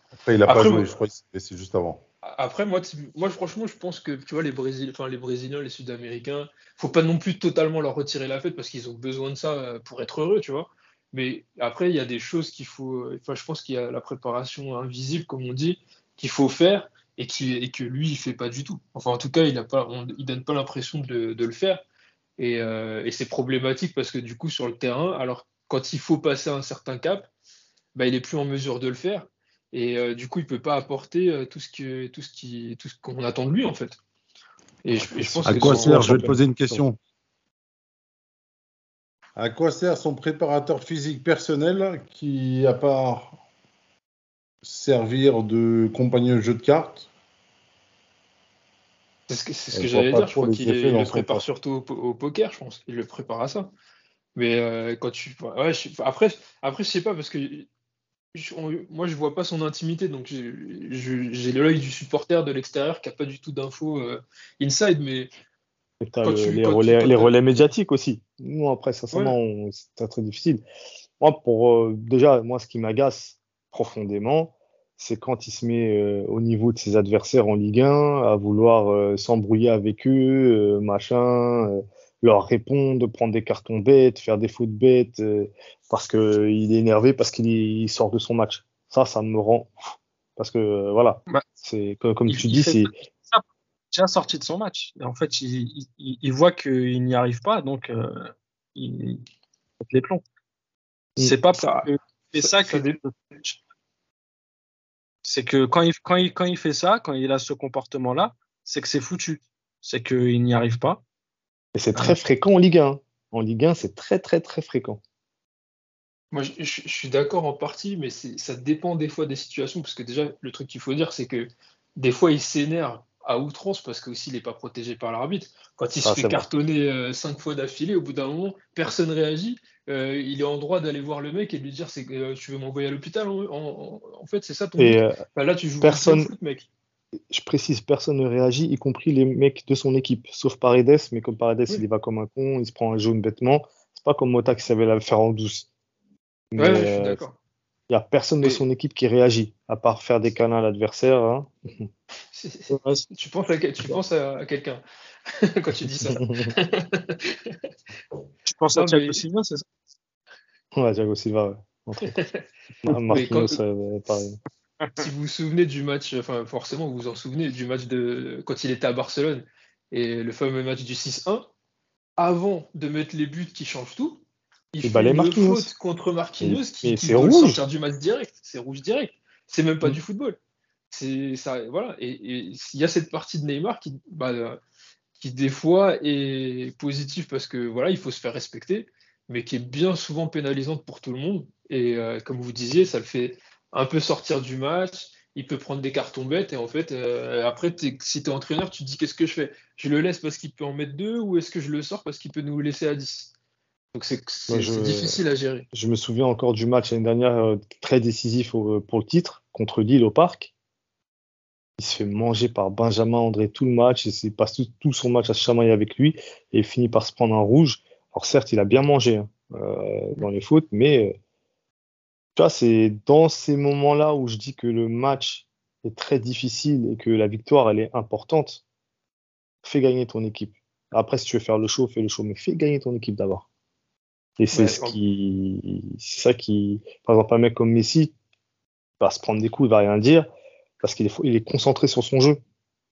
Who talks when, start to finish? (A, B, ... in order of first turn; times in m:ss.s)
0:00.2-0:02.0 A
0:00.4-0:00.9 B
0:02.2-0:21.8 B
0:22.4-0:27.3 B
0:27.9-0:34.0 B
0:34.8-0:36.3 B
0:35.2-0:36.8 C
0:35.4-0:37.0 A
0:39.4-0:43.4 A
0:44.6-0:47.1 A
0:49.3-0:53.7 B
0:49.7-0:51.4 A
0:54.4-0:57.7 B
0:58.3-1:05.3 B
1:06.0-1:10.6 C
1:06.2-1:07.3 B
1:11.2-1:29.7 C
1:30.4-1:32.9 C
1:32.3-1:39.2 D
1:39.8-1:40.2 D
1:41.2-1:43.6 D
1:42.4-1:42.8 B
1:45.2-1:51.0 D
1:51.7-1:55.0 C
1:56.3-2:16.7 B
2:06.0-2:06.4 C
2:14.8-2:15.2 C
2:15.8-2:16.3 C
2:17.3-2:25.7 C
2:26.5-2:27.2 C
2:26.6-2:27.3 B
2:27.9-2:31.9 C
2:32.3-2:37.6 B
2:32.7-2:33.1 D
2:36.1-2:36.5 C
2:38.4-2:39.6 D
2:38.7-2:39.2 B
2:40.7-2:42.1 C
2:42.1-2:42.4 B
2:42.8-2:44.4 C
2:43.1-2:43.6 B
2:45.0-2:51.4 B
2:52.2-2:54.2 B
2:54.7-3:00.4 B
2:54.8-2:55.7 C
2:56.4-2:57.6 C
3:00.9-3:04.6 B
3:05.2-3:23.3 B
3:23.9-3:25.6 B
3:24.5-3:25.2 C
3:25.7-3:30.5 C
3:31.8-3:41.2 C
3:42.3-3:48.6 C
3:49.6-3:53.4 C
3:54.4-3:58.1 C
3:54.5-3:55.0 B
3:59.0-4:00.3 C
4:00.8-4:02.4 C